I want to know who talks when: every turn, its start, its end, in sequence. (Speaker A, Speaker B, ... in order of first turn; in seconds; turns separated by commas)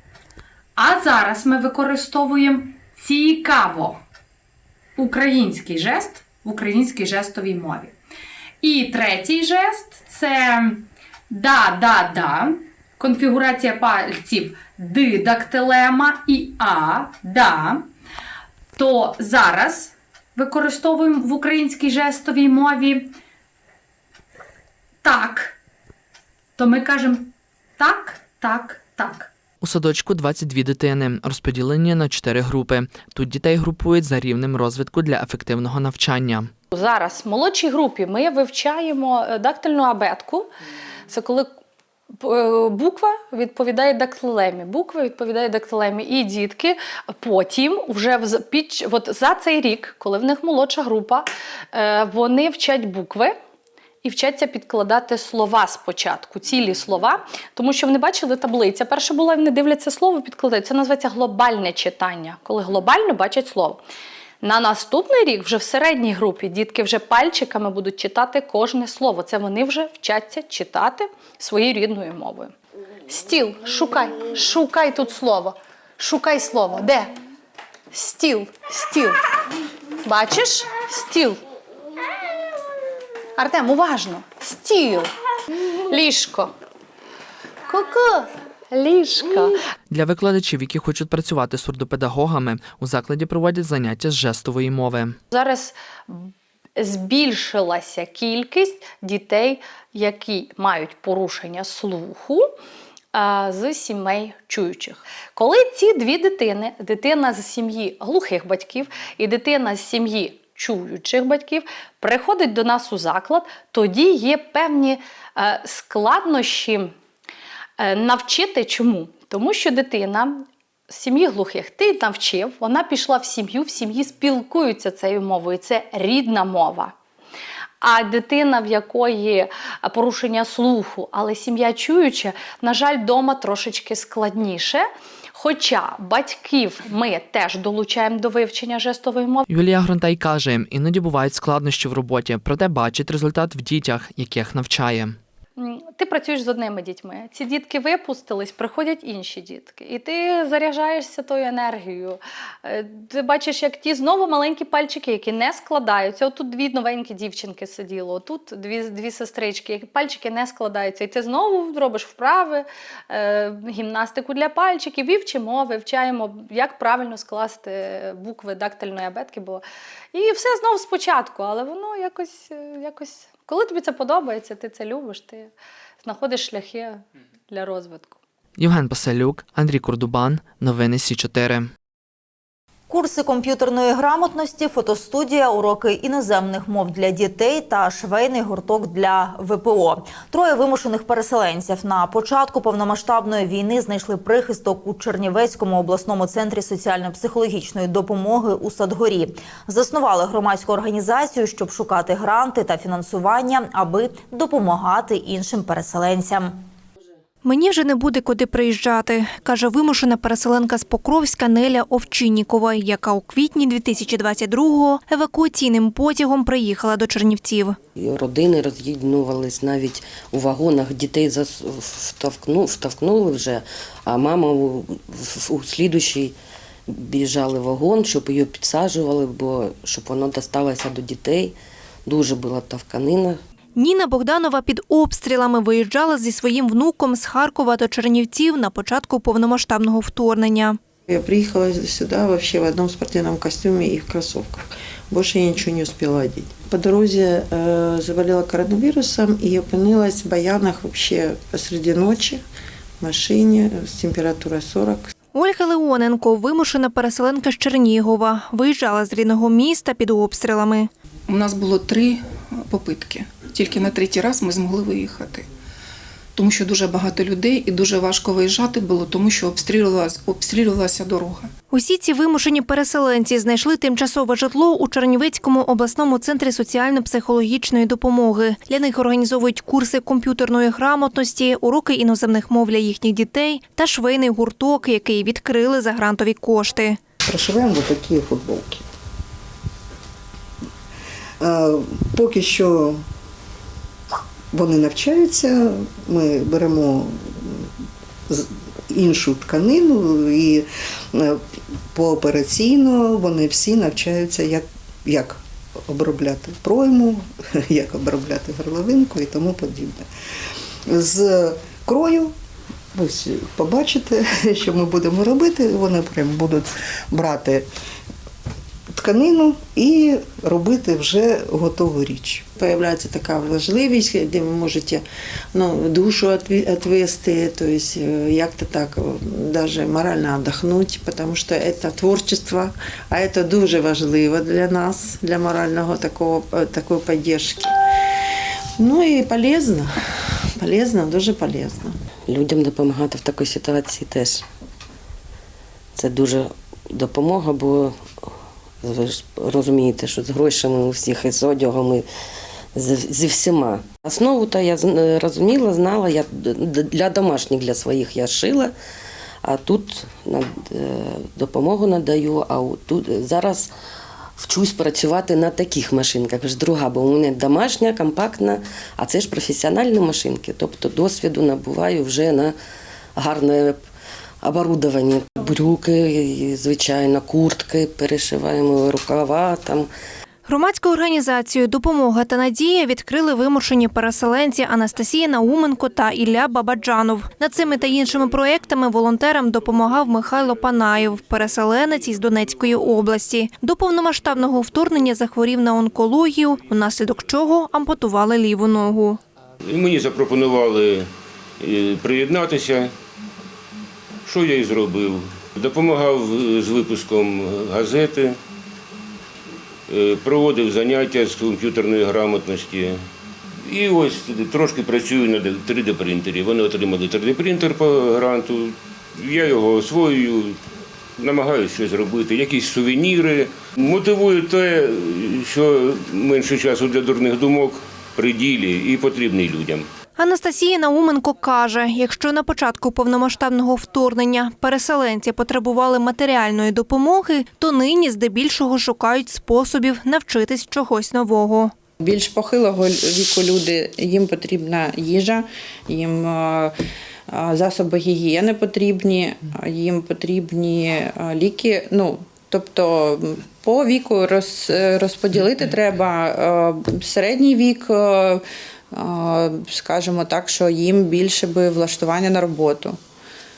Speaker A: 0.8-4.0, Speaker A: 5.0-7.9, Speaker A: 8.6-17.8, Speaker A: 18.8-23.1, Speaker A: 25.0-25.5, Speaker A: 26.6-29.3, Speaker B: 29.6-36.5, Speaker C: 36.7-40.5, Speaker C: 41.1-41.5, Speaker C: 42.2-53.3, Speaker C: 54.0-63.8, Speaker C: 64.4-72.5, Speaker C: 73.1-77.1, Speaker C: 77.9-79.2, Speaker C: 80.0-81.4, Speaker A: 83.5-84.3, Speaker C: 83.6-85.1, Speaker C: 85.9-86.5, Speaker C: 87.7-89.5, Speaker B: 89.9-95.1, Speaker C: 95.3-102.5, Speaker C: 103.1-116.9, Speaker C: 117.8-126.9, Speaker C: 127.8-139.4, Speaker B: 139.5-145.2, Speaker C: 145.6-175.5, Speaker C: 176.0-178.2, Speaker B: 178.6-181.7, Speaker D: 182.9-206.6, Speaker E: 207.4-217.8, Speaker F: 218.0-226.3, Speaker F: 226.9-231.5, Speaker F: 232.1-233.4, Speaker E: 233.8-240.8, Speaker G: 241.1-252.4, Speaker G: 253.0-255.0, Speaker E: 255.3-260.9, Speaker H: 261.3-265.5, Speaker H: 266.4-271.5, Speaker E: 271.7-287.0, Speaker I: 287.2-288.8, Speaker I: 291.4-293.0, Speaker I: 294.5-297.7, Speaker I: 298.3-301.4, Speaker I: 301.9-310.1, Speaker I: 310.9-312.3, Speaker I: 312.9-317.7, Speaker I: 318.9-322.4, Speaker G: 322.6-337.7, Speaker G: 338.8-339.9, Speaker G: 340.6-341.9, Speaker F: 342.3-344.4, Speaker F: 345.9-348.0, Speaker F: 348.8-352.1, Speaker F: 352.7-358.7, Speaker F: 359.4-363.7, Speaker F: 364.4-372.6, Speaker F: 373.1-373.8, Speaker F: 374.4-379.9, Speaker E: 380.4-399.2, Speaker J: 399.6-401.1, Speaker J: 401.6-402.9, Speaker J: 404.2-408.4, Speaker J: 409.9-413.0, Speaker J: 413.6-420.6, Speaker J: 421.2-429.9, Speaker E: 430.2-441.7, Speaker K: 442.0-446.8, Speaker K: 447.3-463.0